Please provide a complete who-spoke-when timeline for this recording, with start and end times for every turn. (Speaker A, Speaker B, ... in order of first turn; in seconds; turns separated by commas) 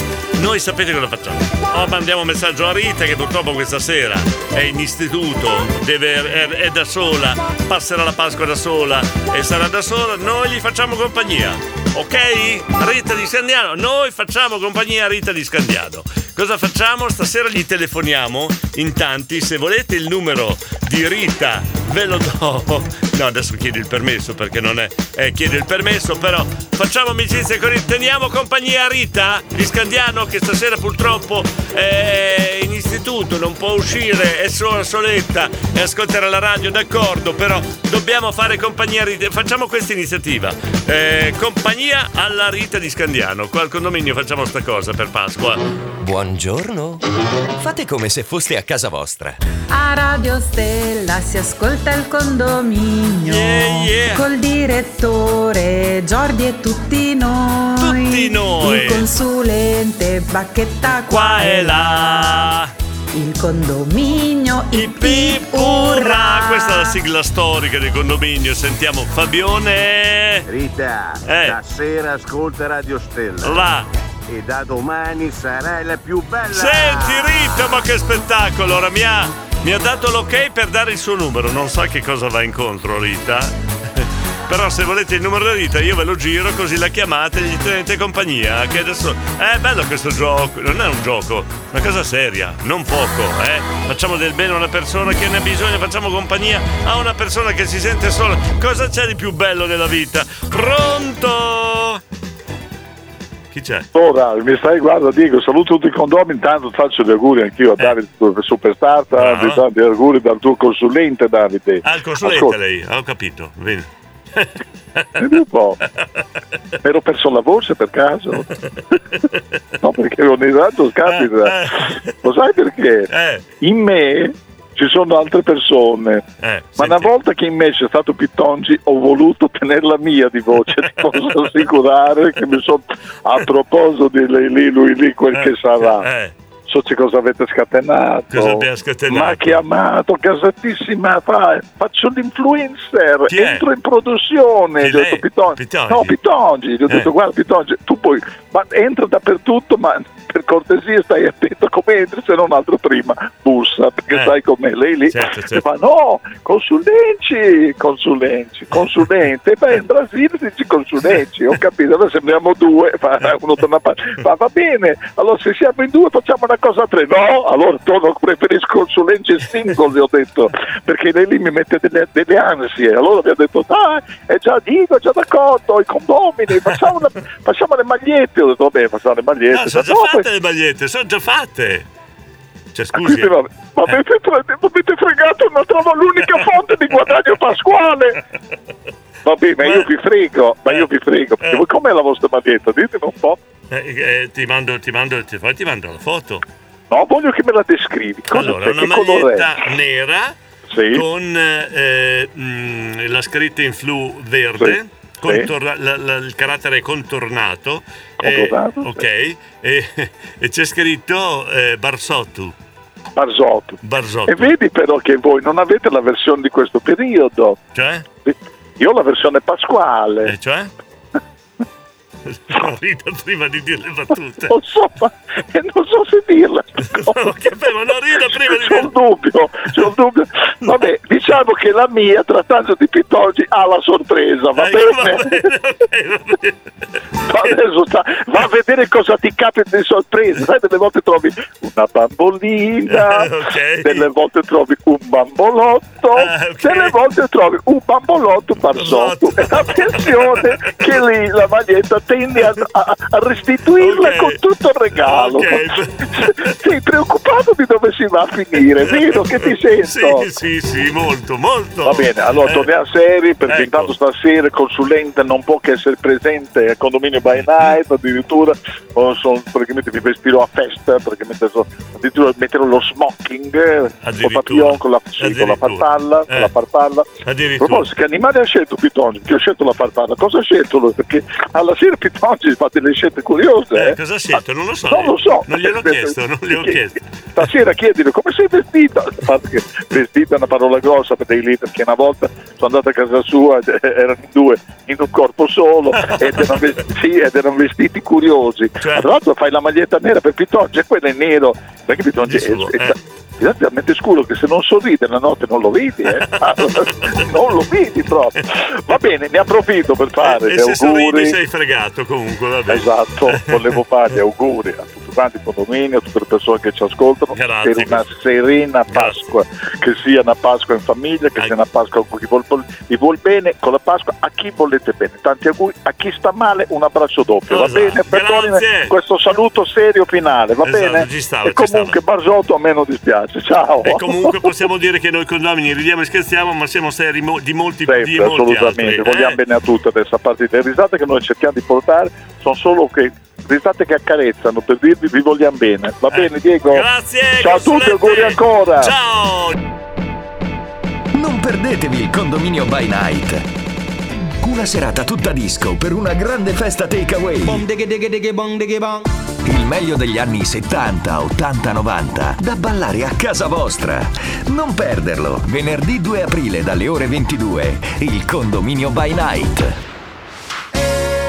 Speaker A: 0.4-45.6, Speaker B: 46.2-46.6, Speaker B: 47.8-49.1, Speaker C: 49.7-62.5, Speaker A: 53.3-54.2, Speaker A: 57.8-59.1, Speaker A: 61.1-62.7, Speaker C: 63.1-67.0, Speaker A: 64.7-70.5, Speaker D: 70.5-73.7, Speaker A: 71.2-71.6, Speaker A: 73.4-73.9, Speaker D: 74.3-77.6, Speaker A: 76.5-102.0, Speaker A: 103.5-103.9, Speaker E: 104.0-112.5, Speaker A: 109.2-109.6, Speaker A: 111.8-114.5, Speaker E: 115.2-115.8, Speaker E: 116.8-118.5, Speaker E: 119.8-121.6, Speaker A: 121.1-122.1, Speaker E: 122.2-123.1, Speaker A: 123.1-123.4, Speaker E: 123.6-126.2, Speaker A: 126.4-127.1, Speaker E: 126.8-136.1, Speaker A: 130.8-131.5, Speaker A: 135.3-136.3, Speaker E: 136.7-180.2, Speaker A: 138.3-139.6, Speaker A: 143.3-143.6, Speaker A: 144.8-146.2, Speaker A: 155.1-155.6, Speaker A: 179.5-181.9, Speaker A: 182.8-183.3, Speaker E: 183.0-188.2, Speaker E: 189.3-193.4, Speaker A: 189.6-189.9, Speaker A: 193.7-196.4, Speaker E: 196.9-199.5, Speaker A: 198.3-200.3, Speaker E: 200.7-201.0, Speaker A: 200.9-212.5, Speaker E: 208.2-209.0, Speaker E: 213.2-217.6, Speaker A: 213.8-214.5, Speaker A: 217.8-218.1, Speaker E: 218.3-220.3, Speaker A: 220.2-220.7, Speaker A: 222.3-224.5, Speaker E: 224.5-227.3, Speaker A: 226.8-228.9, Speaker E: 228.3-235.4, Speaker A: 234.6-236.6, Speaker E: 237.3-243.3, Speaker A: 242.9-244.1, Speaker E: 243.8-255.7, Speaker A: 246.2-246.9, Speaker A: 248.7-251.0, Speaker A: 253.8-254.4, Speaker A: 254.9-256.5, Speaker E: 256.2-260.2, Speaker A: 258.8-262.7, Speaker E: 261.9-277.1, Speaker A: 263.5-263.9, Speaker A: 267.4-267.7, Speaker A: 274.0-276.5, Speaker A: 277.2-277.9, Speaker E: 277.6-284.0, Speaker A: 283.8-287.0, Speaker E: 284.9-286.8, Speaker E: 287.4-311.4, Speaker A: 296.0-296.6, Speaker A: 298.8-299.1, Speaker A: 302.2-302.9, Speaker A: 306.1-307.2, Speaker A: 310.2-313.6, Speaker E: 312.7-334.5, Speaker A: 317.3-318.1, Speaker A: 318.9-319.3, Speaker A: 327.5-328.9, Speaker A: 330.6-332.0, Speaker A: 333.8-339.4, Speaker E: 337.9-346.9, Speaker A: 346.1-349.6, Speaker E: 347.4-348.9, Speaker B: 351.1-353.4, Speaker B: 354.4-357.6, Speaker B: 359.4-369.8